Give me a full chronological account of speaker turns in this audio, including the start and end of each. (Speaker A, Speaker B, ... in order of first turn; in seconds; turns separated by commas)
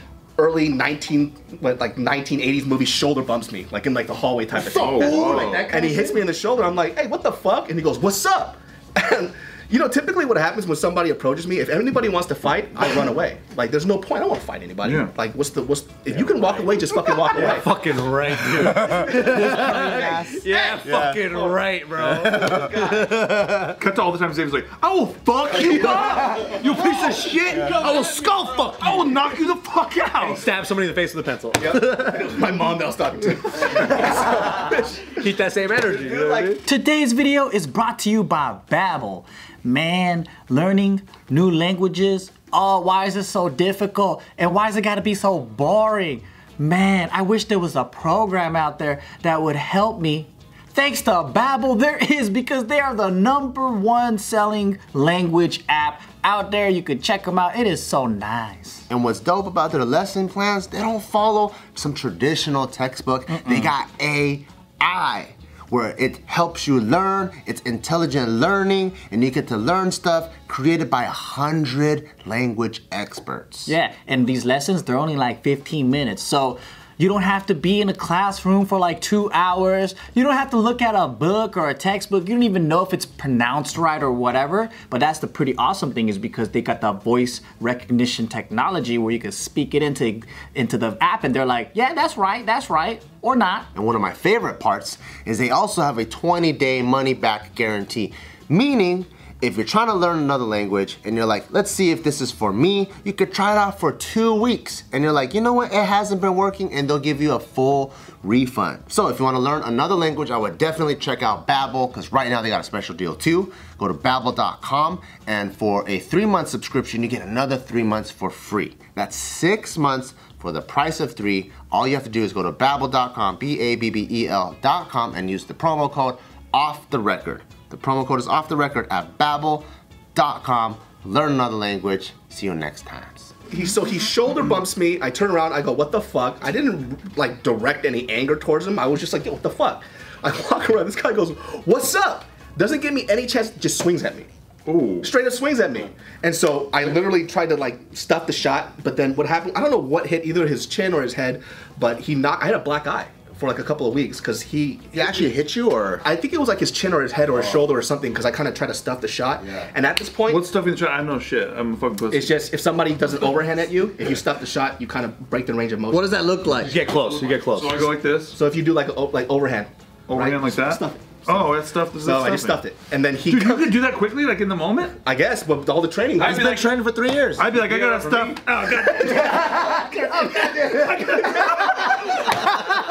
Speaker A: 0.4-17.8, Speaker B: 4.7-5.7, Speaker C: 5.3-6.1, Speaker B: 14.8-15.1, Speaker D: 16.1-23.7, Speaker E: 18.6-21.4, Speaker E: 22.1-22.8, Speaker B: 23.8-30.4, Speaker D: 25.9-29.0, Speaker D: 30.1-32.2, Speaker A: 31.6-35.0, Speaker D: 34.0-36.6, Speaker A: 35.9-36.6, Speaker C: 36.6-58.9, Speaker E: 58.9-73.7, Speaker C: 73.7-93.7, Speaker E: 93.8-133.3, Speaker A: 133.5-144.3, Speaker B: 144.7-145.1, Speaker A: 145.0-155.3, Speaker E: 154.9-156.0, Speaker A: 156.0-160.5, Speaker E: 159.4-159.7, Speaker B: 160.3-162.4, Speaker A: 162.1-166.2, Speaker C: 165.9-166.8, Speaker D: 166.6-167.9, Speaker B: 166.9-168.4, Speaker A: 168.3-173.8, Speaker B: 170.1-172.6, Speaker B: 173.3-175.0, Speaker A: 175.0-176.6, Speaker E: 176.2-177.5, Speaker B: 177.4-179.7, Speaker D: 177.6-178.4, Speaker A: 179.0-182.2, Speaker B: 181.2-182.0